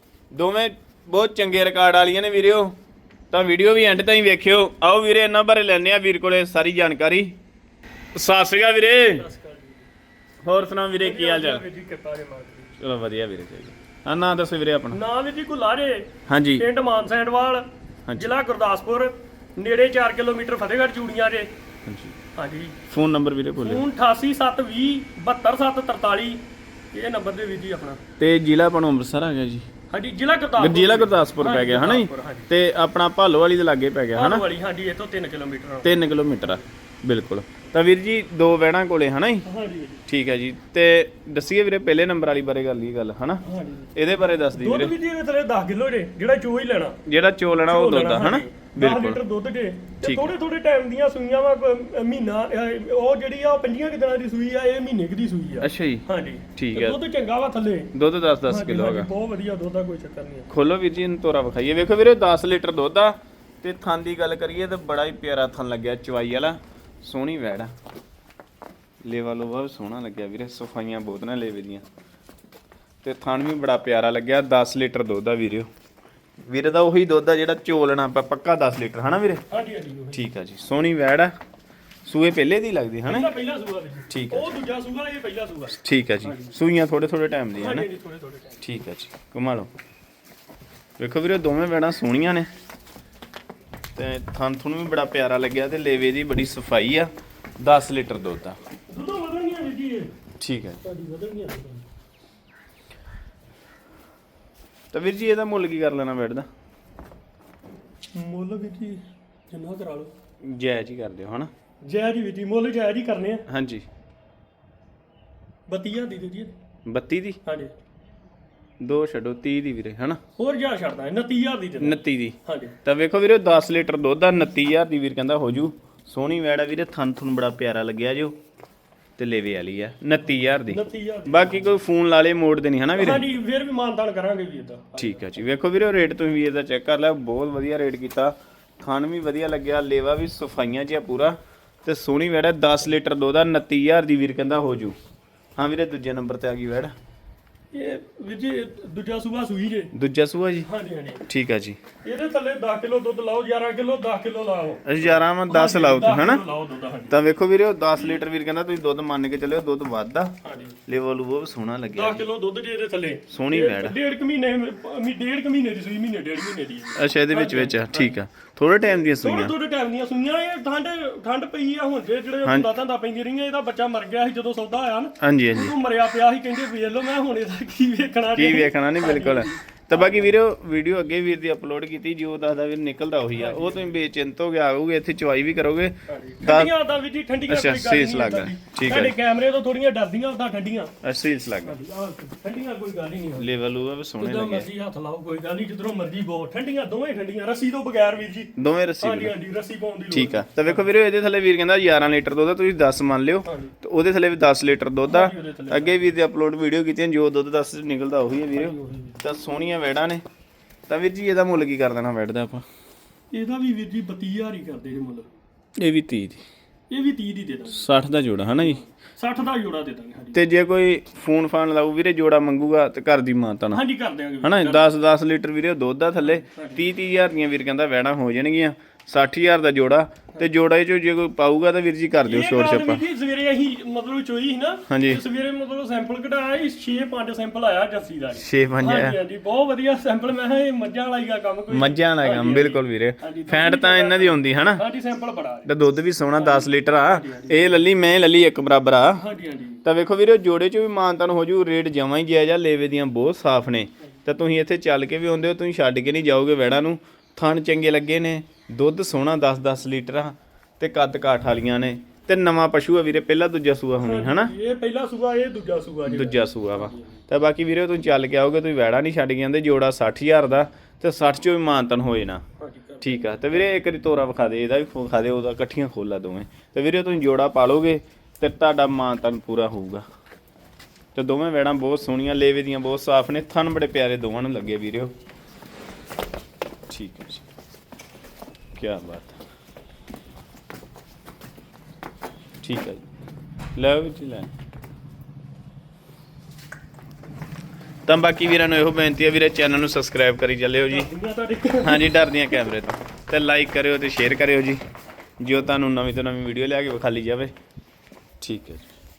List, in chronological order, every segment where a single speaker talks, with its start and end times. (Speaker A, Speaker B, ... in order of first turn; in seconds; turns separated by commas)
Speaker A: 0.3-2.8, Speaker A: 3.3-7.3, Speaker A: 8.2-9.2, Speaker B: 9.2-9.9, Speaker A: 10.4-11.6, Speaker B: 11.0-12.7, Speaker A: 12.8-15.0, Speaker B: 14.9-21.5, Speaker A: 16.3-16.6, Speaker A: 18.1-18.3, Speaker A: 21.9-22.2, Speaker B: 22.4-22.8, Speaker A: 22.9-23.9, Speaker B: 23.6-28.0, Speaker A: 28.2-29.6, Speaker B: 29.9-32.5, Speaker A: 30.6-34.4, Speaker B: 34.1-35.9, Speaker A: 35.8-39.5, Speaker B: 39.5-40.0, Speaker A: 40.1-43.4, Speaker B: 43.4-44.0, Speaker A: 44.0-44.9, Speaker B: 44.5-47.0, Speaker A: 47.1-49.2, Speaker B: 47.6-57.9, Speaker A: 50.0-50.3, Speaker A: 55.6-56.0, Speaker A: 56.6-57.0, Speaker A: 57.9-59.1, Speaker B: 58.5-60.5, Speaker A: 60.5-67.7, Speaker A: 69.0-71.8, Speaker A: 73.0-75.7, Speaker A: 76.5-79.4, Speaker B: 79.5-80.2, Speaker A: 80.1-81.3, Speaker A: 82.0-83.3, Speaker B: 83.1-86.5, Speaker A: 84.1-84.5, Speaker A: 85.8-87.9, Speaker B: 87.6-88.6, Speaker A: 88.6-89.7, Speaker A: 91.0-92.5, Speaker A: 94.0-98.6, Speaker B: 98.9-100.1, Speaker A: 100.4-100.8, Speaker B: 100.8-101.8, Speaker A: 104.9-106.5, Speaker B: 108.1-110.1, Speaker A: 110.4-111.5, Speaker B: 111.8-113.5, Speaker A: 113.5-113.8, Speaker B: 115.7-116.5, Speaker A: 116.9-117.4, Speaker B: 117.5-117.7, Speaker A: 118.8-120.2, Speaker B: 120.4-122.8, Speaker A: 121.8-128.4, Speaker A: 129.2-133.2, Speaker B: 130.4-131.8, Speaker B: 132.9-135.3, Speaker A: 135.0-145.0, Speaker A: 145.6-146.9, Speaker B: 147.7-149.9, Speaker A: 149.9-150.7, Speaker B: 150.7-151.2, Speaker A: 151.3-151.8, Speaker B: 152.0-157.2, Speaker A: 154.9-156.4, Speaker A: 157.1-162.3, Speaker B: 160.4-160.8, Speaker B: 161.9-168.2, Speaker A: 163.3-163.9, Speaker A: 167.0-169.5, Speaker B: 169.1-180.3, Speaker A: 175.2-175.7, Speaker A: 178.3-186.7, Speaker B: 183.3-184.0, Speaker B: 186.1-190.9, Speaker A: 187.5-189.2, Speaker A: 191.0-191.8, Speaker B: 191.6-193.5, Speaker A: 193.4-194.7, Speaker B: 194.2-200.9, Speaker A: 198.6-199.3, Speaker A: 200.1-210.2, Speaker B: 203.5-203.7, Speaker B: 205.1-206.1, Speaker B: 208.5-209.2, Speaker A: 210.9-212.7, Speaker B: 213.3-215.3, Speaker A: 215.8-216.4, Speaker B: 216.9-217.9, Speaker A: 217.7-218.8, Speaker B: 218.5-220.4, Speaker A: 220.3-223.8, Speaker B: 223.7-224.8, Speaker A: 224.4-233.0, Speaker B: 226.2-226.8, Speaker B: 232.2-245.7, Speaker A: 234.9-235.2, Speaker A: 238.4-239.2, Speaker A: 241.7-244.8, Speaker A: 245.7-249.2, Speaker B: 246.3-247.8, Speaker B: 249.2-249.8, Speaker A: 249.8-264.5, Speaker B: 264.0-267.2, Speaker A: 266.1-272.4, Speaker B: 272.6-273.5, Speaker A: 273.0-280.0, Speaker A: 281.1-285.1, Speaker A: 286.9-287.4, Speaker A: 288.8-289.4, Speaker A: 292.6-293.1, Speaker A: 293.8-294.5, Speaker A: 298.1-301.1, Speaker B: 300.9-302.2, Speaker A: 301.8-304.8, Speaker A: 305.4-307.5, Speaker A: 308.4-308.9